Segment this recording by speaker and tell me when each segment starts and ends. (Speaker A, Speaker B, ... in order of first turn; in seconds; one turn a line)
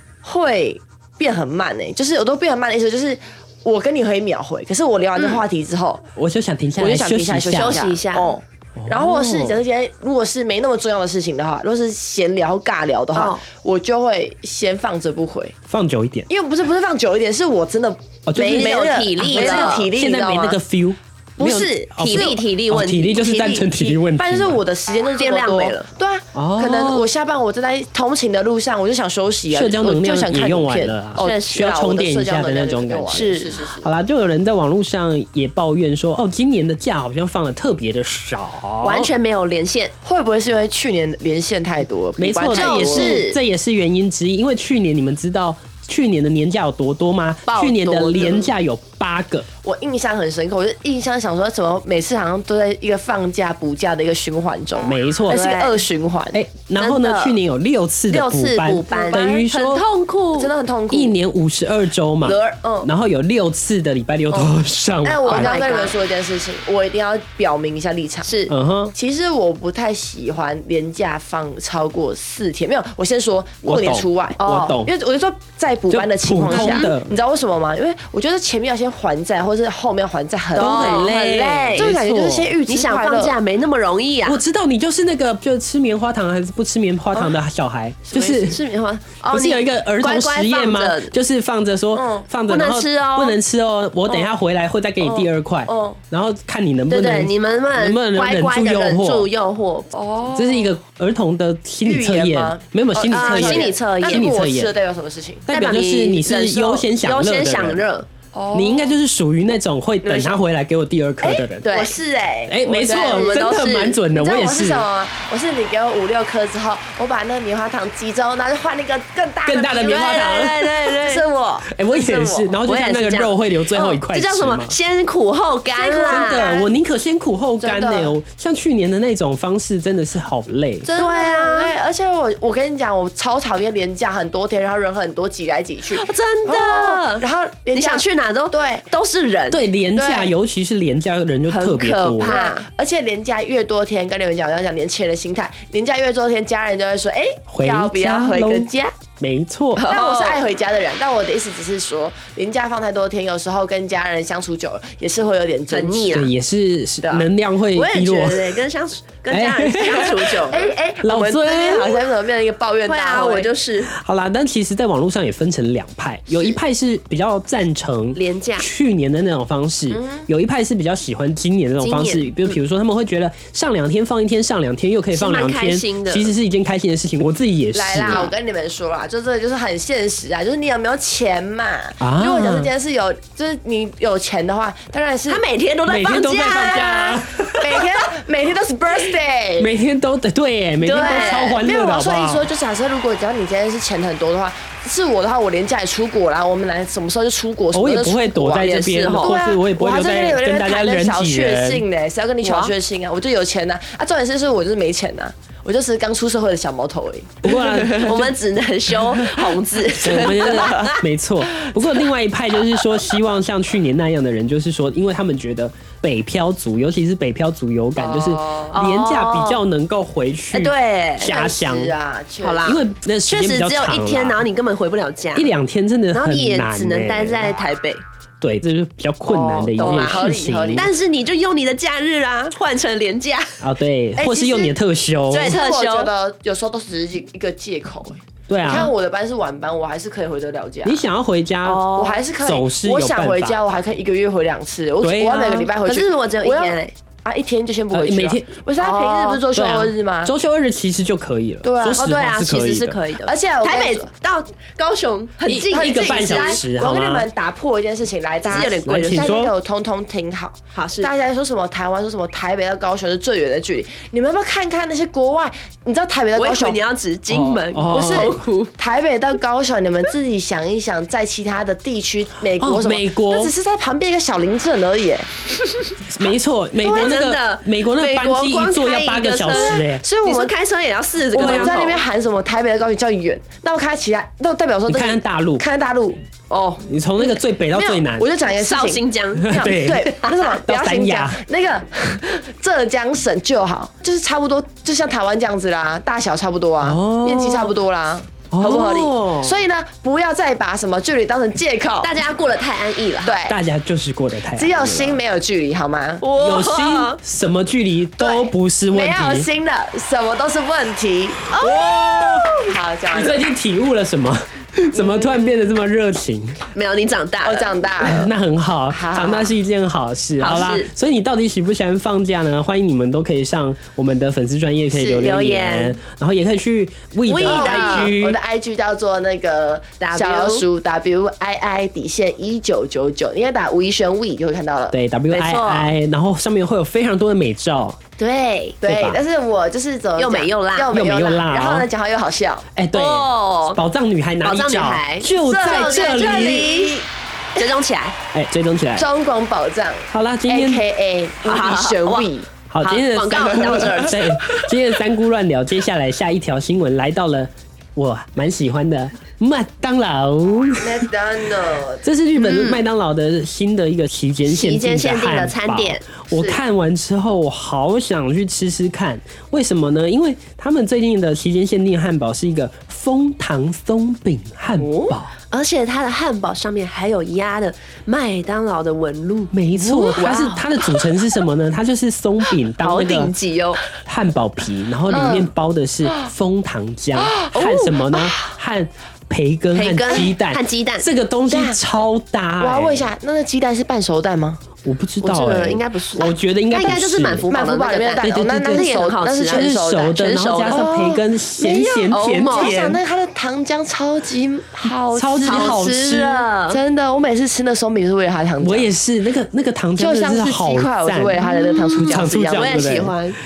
Speaker A: 0.2-6.1
Speaker B: 6.2-7.8
Speaker A: 6.8-15.6
Speaker C: 7.5-8.3
Speaker B: 8.8-9.6
Speaker C: 13.1-13.4
Speaker B: 15.7-16.3
Speaker A: 16.3-20.6
Speaker B: 18.2-24.6
Speaker C: 18.4-19.9
Speaker A: 21.4-22.4
Speaker C: 22.0-23.2
Speaker A: 23.1-33.9
Speaker C: 25.1-25.9
Speaker B: 26.3-27.1
Speaker B: 29.5-39.1
Speaker C: 31.2-31.7
Speaker C: 33.1-33.5
Speaker C: 38.8-39.9
Speaker A: 40.0-43.2
Speaker B: 42.2-49.5
Speaker C: 42.5-43.4
Speaker C: 47.5-48.5
Speaker A: 49.6-56.4
Speaker B: 54.8-55.4
Speaker C: 55.3-55.8
Speaker B: 56.3-59.8
Speaker C: 56.8-57.4
Speaker C: 58.1-60.5
Speaker A: 58.9-59.5
Speaker A: 60.4-61.1
Speaker B: 60.9-65.7
Speaker C: 62.2-62.7
Speaker A: 62.6-62.9
Speaker A: 65.0-68.3
Speaker C: 65.2-65.9
Speaker C: 68.2-68.5
Speaker B: 68.5-68.9
Speaker A: 68.9-83.4
Speaker B: 73.7-74.9
Speaker B: 75.9-77.1
Speaker C: 76.5-76.9
Speaker B: 80.5-82.5
Speaker C: 80.6-81.9
Speaker C: 82.7-84.4
Speaker B: 84.2-88.6
Speaker A: 88.1-88.5
Speaker C: 88.2-91.1
Speaker B: 89.3-99.3
Speaker A: 91.9-92.3
Speaker C: 92.5-93.4
Speaker A: 95.0-96.0
Speaker C: 96.9-99.9
Speaker A: 99.9-100.8
Speaker B: 100.3-104.8
Speaker A: 101.8-105.5
Speaker C: 103.1-104.3
Speaker B: 105.5-107.8
Speaker C: 105.5-108.1
Speaker A: 108.3-108.9
Speaker B: 108.5-111.7
Speaker A: 110.0-110.4
Speaker A: 111.2-113.5
Speaker C: 111.7-112.0
Speaker B: 112.5-114.9
Speaker C: 112.7-114.0
Speaker A: 114.1-122.5
Speaker B: 119.4-120.9
Speaker C: 119.8-121.2
Speaker B: 121.7-124.8
Speaker C: 122.6-126.5
Speaker A: 125.7-126.7
Speaker B: 126.0-130.9
Speaker A: 127.6-128.2
Speaker A: 130.8-138.8
Speaker C: 130.9-131.8
Speaker C: 135.9-139.6
Speaker B: 139.5-142.4
Speaker A: 139.9-140.3
Speaker C: 141.5-142.6
Speaker A: 142.2-148.9
Speaker B: 147.5-149.8
Speaker C: 149.8-150.4
Speaker A: 149.8-156.2
Speaker C: 155.7-156.3
Speaker B: 156.1-158.6
Speaker C: 157.7-160.7
Speaker B: 159.3-160.4
Speaker A: 160.5-163.5
Speaker B: 161.0-162.0
Speaker C: 162.9-163.9
Speaker B: 163.9-178.3
Speaker C: 168.1-168.7
Speaker A: 169.9-170.3
Speaker C: 171.8-172.5
Speaker C: 175.1-176.3
Speaker A: 177.7-185.4
Speaker B: 182.0-182.7
Speaker C: 185.3-187.2
Speaker B: 185.9-187.9
Speaker A: 186.7-189.7
Speaker B: 189.6-192.5
Speaker C: 190.8-191.6
Speaker A: 190.9-208.2
Speaker B: 197.7-201.8
Speaker C: 198.6-199.4
Speaker C: 202.4-202.7
Speaker B: 207.4-208.3
Speaker C: 207.9-211.0
Speaker B: 210.0-221.9
Speaker A: 210.1-210.9
Speaker A: 218.0-218.8
Speaker C: 218.7-219.6
Speaker C: 220.5-221.4
Speaker A: 221.2-222.8
Speaker C: 222.4-225.5
Speaker B: 222.6-224.4
Speaker B: 225.3-227.6
Speaker C: 226.1-228.0
Speaker B: 228.4-230.9
Speaker A: 229.2-230.9
Speaker C: 229.8-233.6
Speaker B: 233.6-235.6
Speaker A: 234.2-234.8
Speaker C: 235.3-236.1
Speaker A: 235.4-241.0
Speaker B: 238.5-238.9
Speaker B: 240.8-241.9
Speaker C: 241.6-242.2
Speaker A: 241.9-250.3
Speaker B: 242.4-243.6
Speaker B: 245.0-245.6
Speaker C: 245.5-246.9
Speaker B: 247.9-248.5
Speaker C: 248.8-249.4
Speaker B: 249.5-253.0
Speaker A: 251.6-252.1
Speaker C: 251.9-256.6
Speaker A: 253.2-254.1
Speaker B: 255.4-257.3
Speaker A: 255.5-266.8
Speaker C: 258.4-259.3
Speaker B: 258.8-259.5
Speaker C: 260.7-261.1
Speaker C: 266.4-268.7
Speaker B: 267.3-268.4
Speaker A: 267.9-275.3
Speaker B: 272.6-273.5
Speaker B: 276.1-280.0
Speaker C: 276.8-282.0
Speaker A: 279.5-280.5
Speaker B: 281.3-281.9
Speaker A: 281.3-302.1
Speaker B: 284.9-285.6
Speaker B: 286.9-288.3
Speaker C: 288.5-290.5
Speaker B: 289.4-291.4
Speaker B: 296.8-297.8
Speaker B: 298.5-299.6
Speaker C: 302.0-303.4
Speaker A: 303.2-303.6
Speaker B: 303.4-305.2
Speaker A: 304.5-306.2
Speaker C: 306.2-307.2
Speaker B: 306.4-309.5
Speaker A: 308.2-311.5
Speaker C: 311.5-312.7
Speaker B: 311.5-312.5
Speaker A: 312.6-313.4
Speaker B: 313.1-316.6
Speaker A: 314.9-315.4
Speaker C: 316.7-317.8
Speaker A: 317.4-318.3
Speaker B: 318.0-328.4
Speaker A: 318.9-319.6
Speaker C: 320.4-320.9
Speaker A: 324.9-325.3
Speaker C: 325.1-326.0
Speaker C: 327.3-328.1
Speaker A: 327.4-334.9
Speaker C: 330.0-330.6
Speaker B: 334.9-338.0
Speaker C: 335.3-335.9
Speaker C: 338.2-338.8
Speaker A: 338.8-342.7
Speaker B: 338.9-339.2
Speaker C: 340.2-340.9
Speaker B: 340.9-341.9
Speaker B: 342.8-346.8
Speaker C: 342.9-343.8
Speaker C: 344.4-347.0
Speaker A: 345.4-347.1
Speaker C: 347.6-348.1
Speaker B: 348.3-349.1
Speaker A: 349.0-352.5
Speaker B: 350.1-350.8
Speaker C: 351.4-352.3
Speaker B: 352.7-361.1
Speaker C: 352.8-354.2
Speaker A: 353.5-354.7
Speaker A: 360.8-362.8
Speaker B: 362.0-375.3
Speaker C: 362.4-362.8
Speaker C: 364.5-366.0
Speaker A: 366.3-366.6
Speaker A: 374.8-375.1
Speaker C: 375.0-379.5
Speaker B: 379.5-383.3
Speaker A: 379.8-381.0
Speaker C: 380.1-380.6
Speaker C: 382.8-383.8
Speaker B: 384.0-393.1
Speaker A: 385.1-385.5
Speaker A: 387.2-388.5
Speaker C: 389.7-391.1
Speaker A: 391.5-391.8
Speaker A: 392.6-394.6
Speaker B: 394.8-397.5
Speaker C: 395.2-400.9
Speaker A: 397.5-406.0
Speaker B: 398.2-398.9
Speaker B: 399.5-403.0
Speaker C: 402.1-402.8
Speaker B: 405.1-406.5
Speaker C: 405.4-406.8
Speaker A: 406.7-408.9
Speaker B: 408.6-413.1
Speaker A: 410.0-413.1
Speaker C: 411.5-413.4